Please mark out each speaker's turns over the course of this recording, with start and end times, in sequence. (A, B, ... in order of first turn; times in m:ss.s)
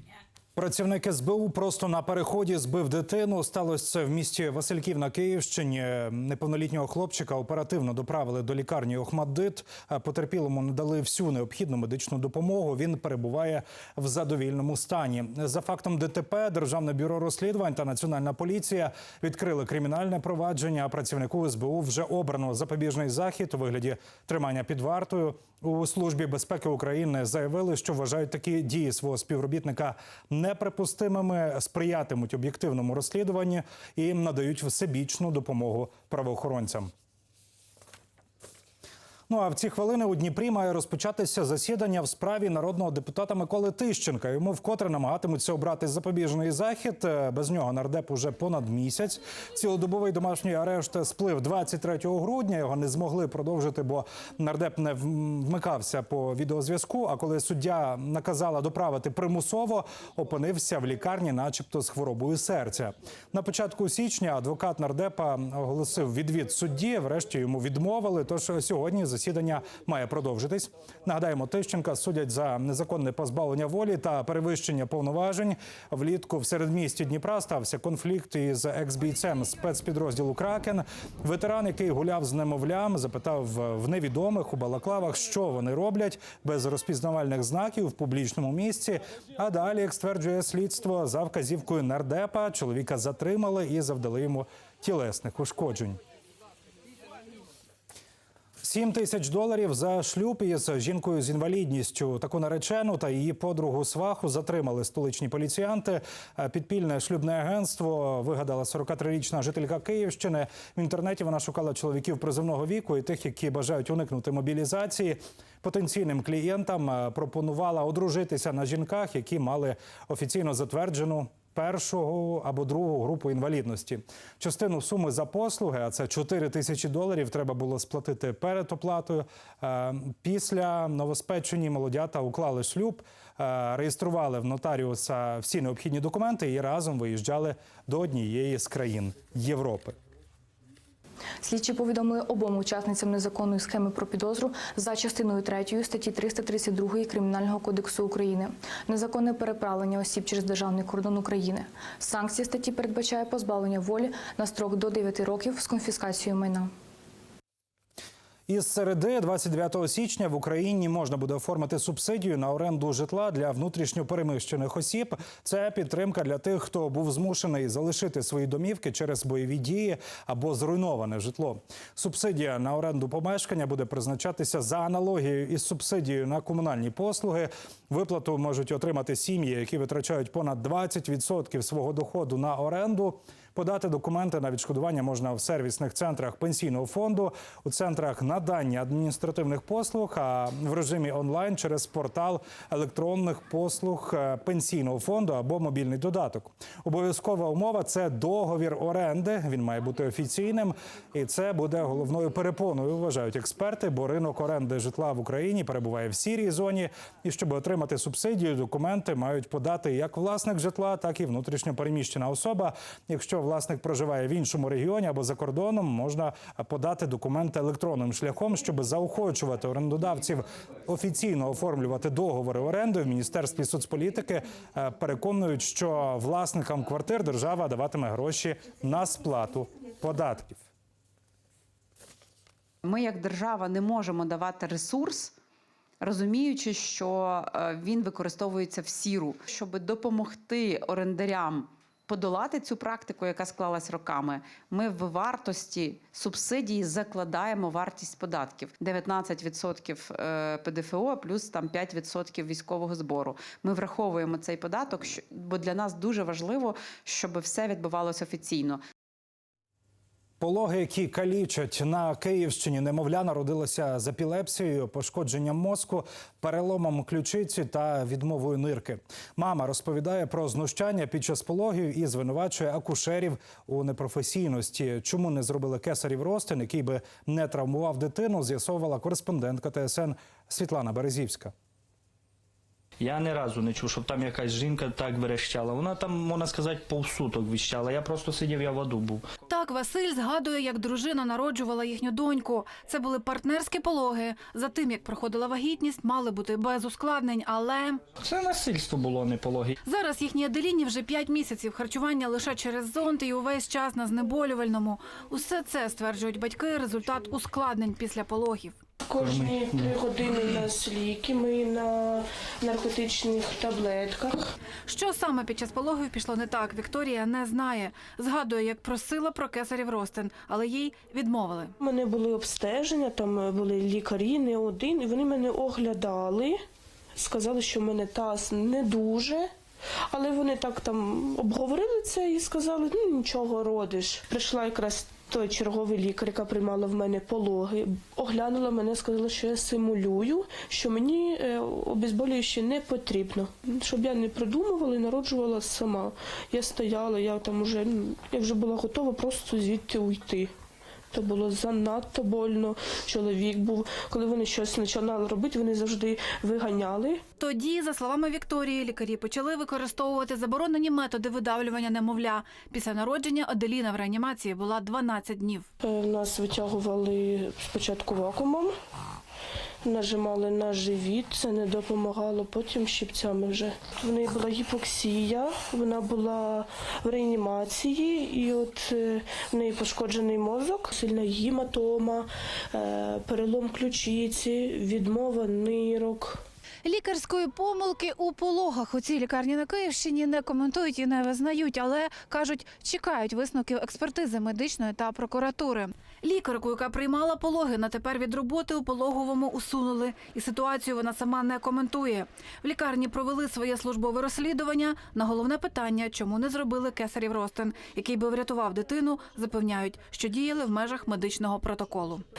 0:00.5-0:36.9 A
0:39.3-1:36.0 A
1:38.6-2:20.0 A
2:21.4-2:36.7 B
2:38.5-3:50.7 A
3:52.8-3:55.3 C
3:56.0-4:18.8 C
4:20.4-4:41.5 A
4:43.0-4:49.2 D
4:49.5-4:58.0 E
4:58.2-4:59.8 D
4:59.8-5:08.8 E
5:09.0-5:14.5 F
5:09.2-5:10.6 D
5:14.8-5:21.7 E
5:21.8-5:26.6 F
5:27.2-5:29.5 F
5:30.1-5:50.5 F
5:51.1-5:57.2 F
5:57.4-6:05.7 E
6:05.8-6:08.7 F
6:09.8-6:26.4 F
6:26.8-6:52.2 E